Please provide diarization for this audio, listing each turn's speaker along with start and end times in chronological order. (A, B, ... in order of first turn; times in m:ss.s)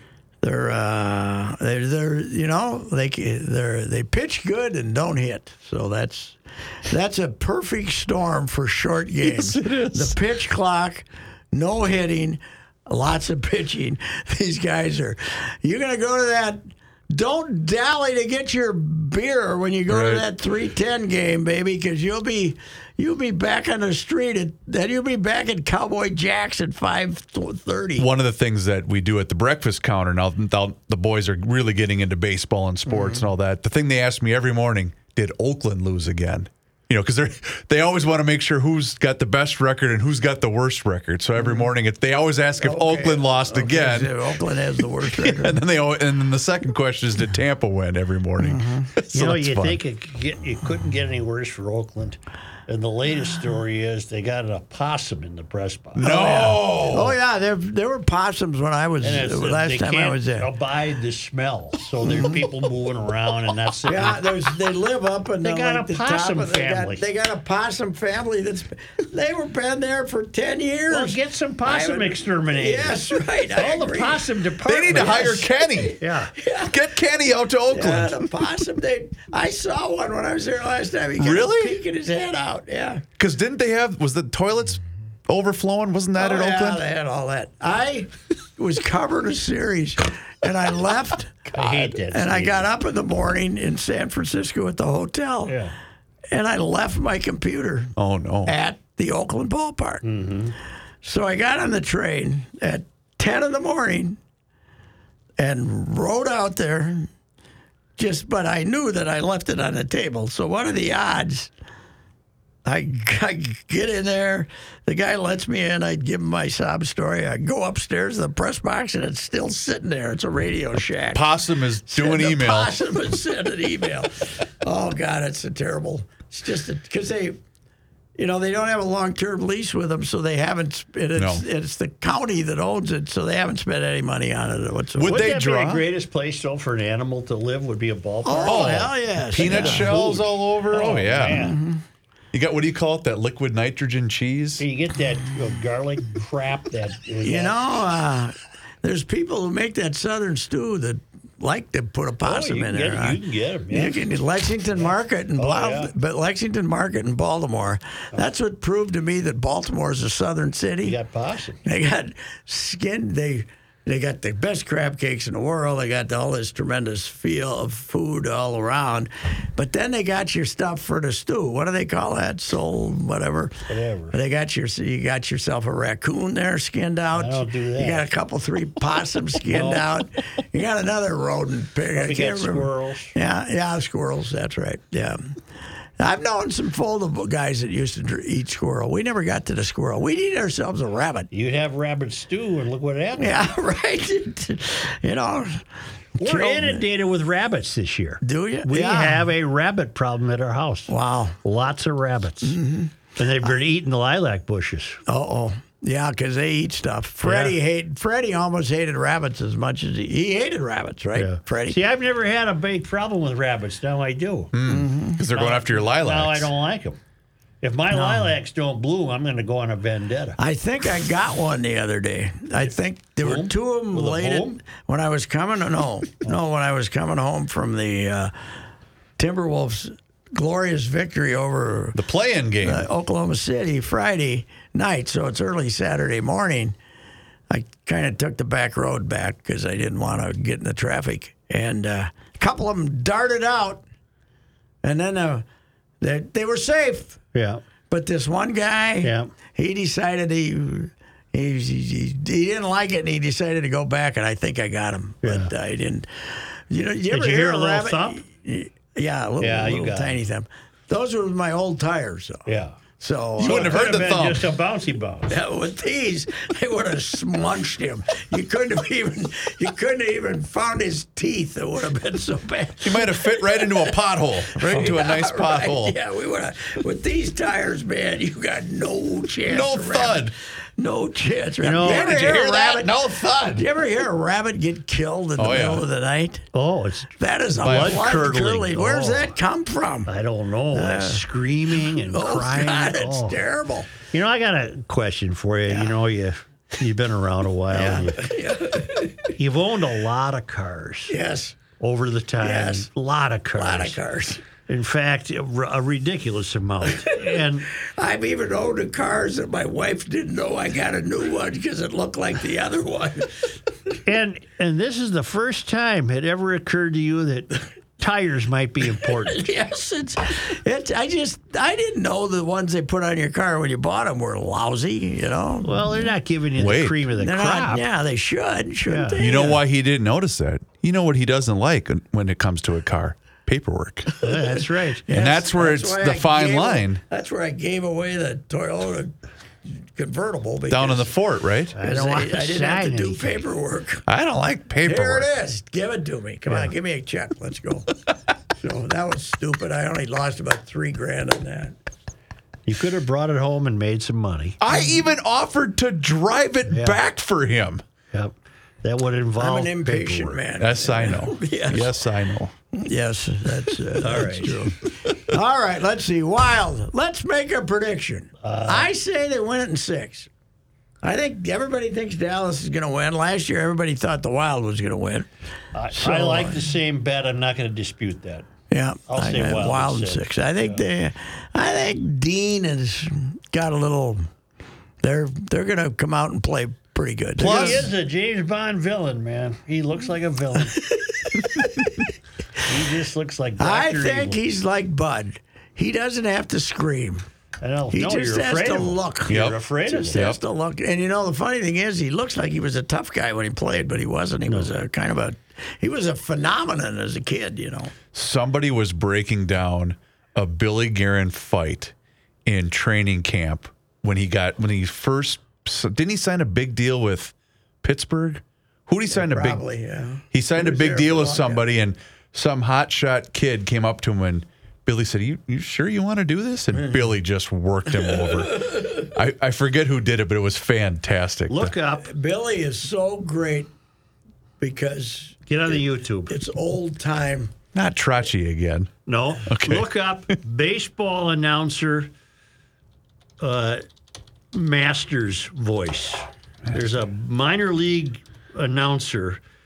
0:00.4-0:28.1 A
0:09.2-0:10.2 B
0:19.9-0:20.2 B
0:28.0-0:44.4 B
0:32.9-0:33.3 A
0:41.4-0:41.6 A
0:42.6-0:45.6 A
0:45.0-0:49.8 B
0:48.4-0:48.9 A
0:49.1-0:56.0 C
0:56.0-0:57.2 B
0:56.0-1:00.5 A
0:59.0-1:04.3 C
1:02.0-1:02.5 A
1:03.8-1:16.8 A
1:05.4-1:07.0 C
1:10.9-1:16.3 C
1:14.6-1:16.0 B
1:16.7-1:18.6 B
1:17.7-1:23.0 A
1:21.2-1:21.8 B
1:23.2-1:26.8 B
1:26.2-1:35.6 A
1:31.5-1:32.7 C
1:35.5-1:35.7 C
1:36.3-1:37.9 A
1:38.0-1:38.5 B
1:38.4-1:40.0 A
1:40.0-1:40.6 C
1:41.0-1:44.2 A
1:45.4-1:47.1 A
1:48.0-1:51.5 A
1:52.6-2:01.2 A
2:01.1-2:02.8 B
2:01.9-2:07.4 A
2:08.2-2:15.2 A
2:11.2-2:11.4 B
2:14.9-2:15.8 B
2:15.0-2:21.6 C
2:18.2-2:20.0 A
2:18.4-2:21.5 B
2:21.3-2:21.8 A
2:22.3-2:24.6 B
2:24.6-2:27.6 C
2:27.2-2:33.2 A
2:32.2-2:34.0 C
2:33.7-2:41.0 A
2:34.8-2:35.9 C
2:40.8-2:41.6 C
2:41.6-3:05.3 A
2:53.7-2:54.2 C
2:57.1-2:58.1 C
2:59.5-2:59.8 C
3:01.9-3:03.1 C
3:06.0-3:11.3 A
3:11.3-3:13.4 C
3:13.2-3:15.6 A
3:16.2-3:16.8 A
3:16.2-3:22.6 C
3:18.2-3:19.3 A
3:20.9-3:21.4 A
3:22.4-3:23.0 A
3:23.2-3:25.0 C
3:25.1-3:31.8 A
3:27.2-3:27.6 C
3:31.2-3:34.5 C
3:34.5-3:36.5 B
3:34.6-3:35.2 A
3:35.3-3:37.0 C
3:37.6-3:40.4 C
3:37.9-3:38.3 A
3:40.4-3:48.3 A
3:43.2-3:44.6 C
3:49.2-3:52.0 A
3:51.9-3:52.9 B
3:52.6-3:56.8 A
3:57.5-4:03.8 A
4:04.8-4:05.4 A
4:06.0-4:07.2 A
4:07.3-4:07.6 C
4:07.9-4:22.4 A
4:09.0-4:09.3 C
4:15.2-4:15.5 C
4:17.1-4:18.2 C
4:19.4-4:20.2 C
4:22.5-4:22.8 C
4:23.0-4:23.8 A
4:23.4-4:24.5 B
4:23.4-4:25.4 C
4:25.3-4:34.0 A
4:32.8-4:36.0 B
4:34.5-4:42.9 A
4:39.4-4:40.3 B
4:41.6-4:42.2 C
4:41.8-4:43.7 B
4:43.5-4:46.4 A
4:45.4-4:45.8 B
4:46.5-4:49.3 C
4:47.2-4:50.1 A
4:47.6-4:48.0 B
4:50.1-4:53.4 C
4:50.7-4:51.2 A
4:51.9-4:53.9 A
4:54.1-4:58.2 C
4:55.7-4:56.0 A
4:57.7-4:59.3 A
4:59.3-5:01.2 C
5:01.1-5:01.6 A
5:01.8-5:04.0 C
5:02.4-5:02.9 A
5:03.5-5:04.4 A
5:04.6-5:07.7 C
5:07.0-5:13.5 A
5:14.0-5:19.4 C
5:19.2-5:26.1 A
5:25.6-5:27.8 C
5:26.6-5:27.0 B
5:27.1-5:29.6 A
5:28.8-5:29.2 C
5:29.2-5:34.1 B
5:34.2-5:35.0 C
5:34.2-5:34.6 A
5:35.1-5:39.2 A
5:35.1-5:37.0 B
5:39.9-5:41.1 A
5:40.7-5:41.7 B
5:41.7-5:43.4 C
5:41.8-5:44.0 A
5:44.1-5:45.3 B
5:44.8-5:47.9 A
5:46.5-5:46.7 C
5:48.5-5:51.7 A
5:52.6-5:54.6 C
5:54.6-5:57.8 B
5:56.7-5:57.0 C
5:58.1-6:00.4 C
5:59.4-6:01.9 A
6:00.6-6:02.5 B
6:02.7-6:10.3 A
6:04.0-6:04.7 C
6:08.4-6:08.9 C
6:11.0-6:15.3 A
6:15.7-6:18.4 C
6:15.9-6:16.7 A
6:18.7-6:24.3 A
6:19.1-6:20.8 C
6:25.0-6:27.9 A
6:27.4-6:27.9 B
6:27.4-6:30.8 C
6:30.7-6:31.9 A
6:32.7-6:34.4 C
6:33.6-6:37.2 A
6:37.6-6:40.2 C
6:37.9-6:47.9 A
6:39.3-6:39.6 B
6:40.1-6:40.4 B
6:48.1-6:51.9 B
6:52.4-6:59.6 B
6:59.1-7:01.7 A
7:00.3-7:11.7 B
7:06.7-7:07.1 A
7:08.0-7:09.0 A
7:11.5-7:12.1 C
7:12.0-7:13.7 A
7:14.6-7:17.5 A
7:15.5-7:16.3 C
7:17.7-7:18.9 B
7:19.0-7:22.1 C
7:19.4-7:20.0 B
7:23.4-7:23.8 C
7:24.5-7:29.4 C